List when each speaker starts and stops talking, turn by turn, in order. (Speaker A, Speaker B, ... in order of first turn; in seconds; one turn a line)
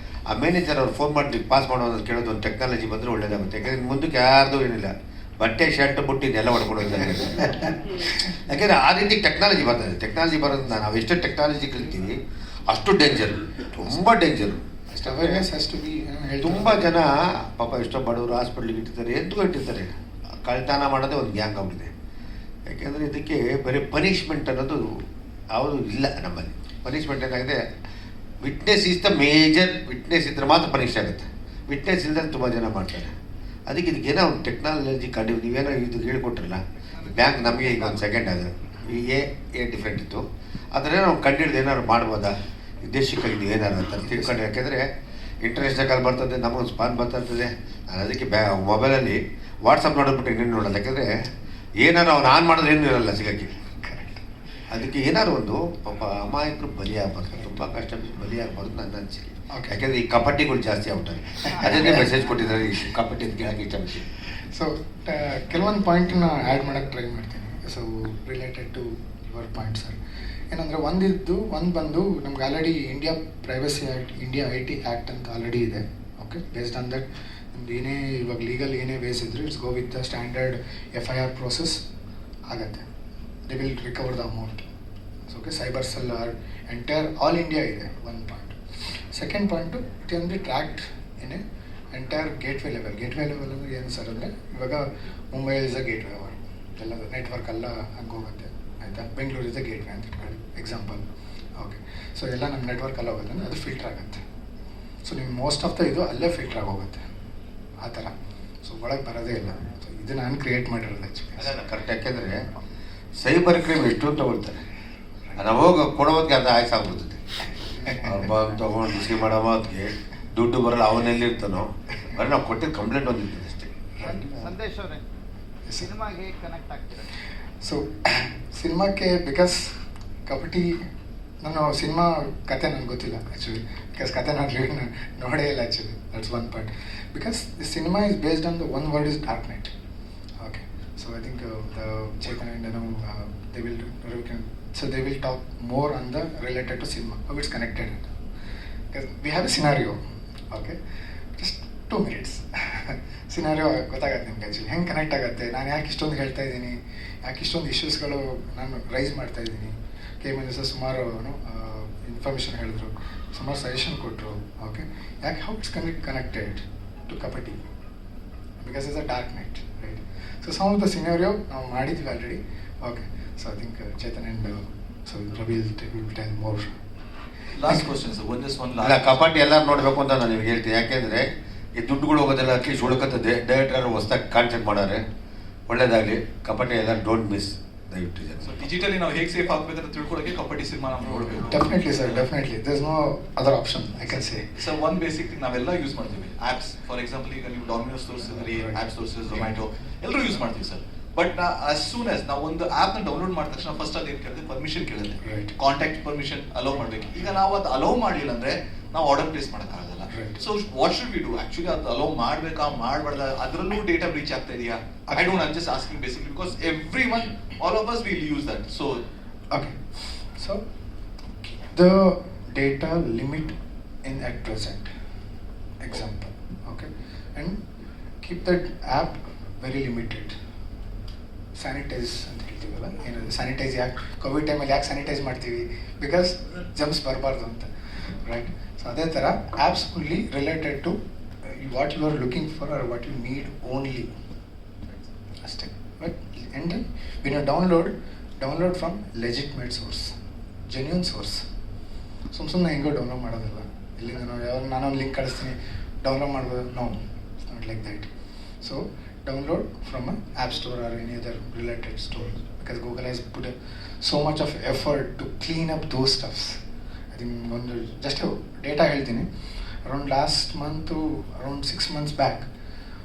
Speaker A: 0.3-7.7
Speaker B: 7.4-7.7
Speaker A: 8.2-15.5
Speaker B: 14.9-17.0
Speaker A: 16.4-19.9
Speaker A: 20.4-21.9
Speaker A: 22.7-25.0
Speaker A: 25.5-27.6
Speaker A: 28.4-33.1
Speaker A: 33.7-44.9
Speaker B: 44.0-44.4
Speaker A: 45.4-51.1
Speaker A: 51.8-53.5
Speaker B: 53.7-54.2
Speaker A: 54.7-64.0
Speaker B: 59.5-59.8
Speaker B: 61.5-62.1
Speaker B: 64.3-70.0
Speaker B: 70.5-81.8
Speaker B: 82.5-82.9
Speaker B: 83.5-84.7
Speaker B: 85.3-101.0
Speaker B: 101.6-104.2
Speaker B: 105.0-107.0
Speaker B: 107.8-108.1
Speaker B: 108.6-111.5
Speaker A: 111.4-112.4
Speaker A: 113.2-114.6
Speaker A: 115.4-117.2
Speaker B: 117.5-118.3
Speaker A: 118.0-123.7
Speaker B: 124.0-124.6
Speaker C: 124.0-125.0
Speaker B: 125.7-125.9
Speaker C: 125.8-127.1
Speaker B: 127.6-130.9
Speaker B: 131.4-139.7
Speaker B: 140.4-148.1
Speaker B: 148.9-150.8
Speaker B: 151.4-167.6
Speaker B: 168.6-176.7
Speaker D: 177.6-179.2
Speaker B: 177.6-177.9
Speaker A: 178.8-185.0
Speaker A: 185.7-188.7
Speaker D: 188.4-192.3
Speaker B: 191.3-194.5
Speaker D: 194.5-219.0
Speaker B: 198.4-198.8
Speaker B: 205.2-205.5
Speaker B: 210.1-210.4
Speaker B: 215.1-215.4
Speaker B: 219.5-220.6
Speaker B: 221.4-224.9
Speaker B: 225.8-227.6
Speaker B: 228.2-230.3
Speaker B: 231.6-244.1
Speaker B: 245.4-251.5
Speaker B: 252.3-258.1
Speaker B: 258.6-266.6
Speaker B: 267.1-269.3
Speaker B: 269.8-272.5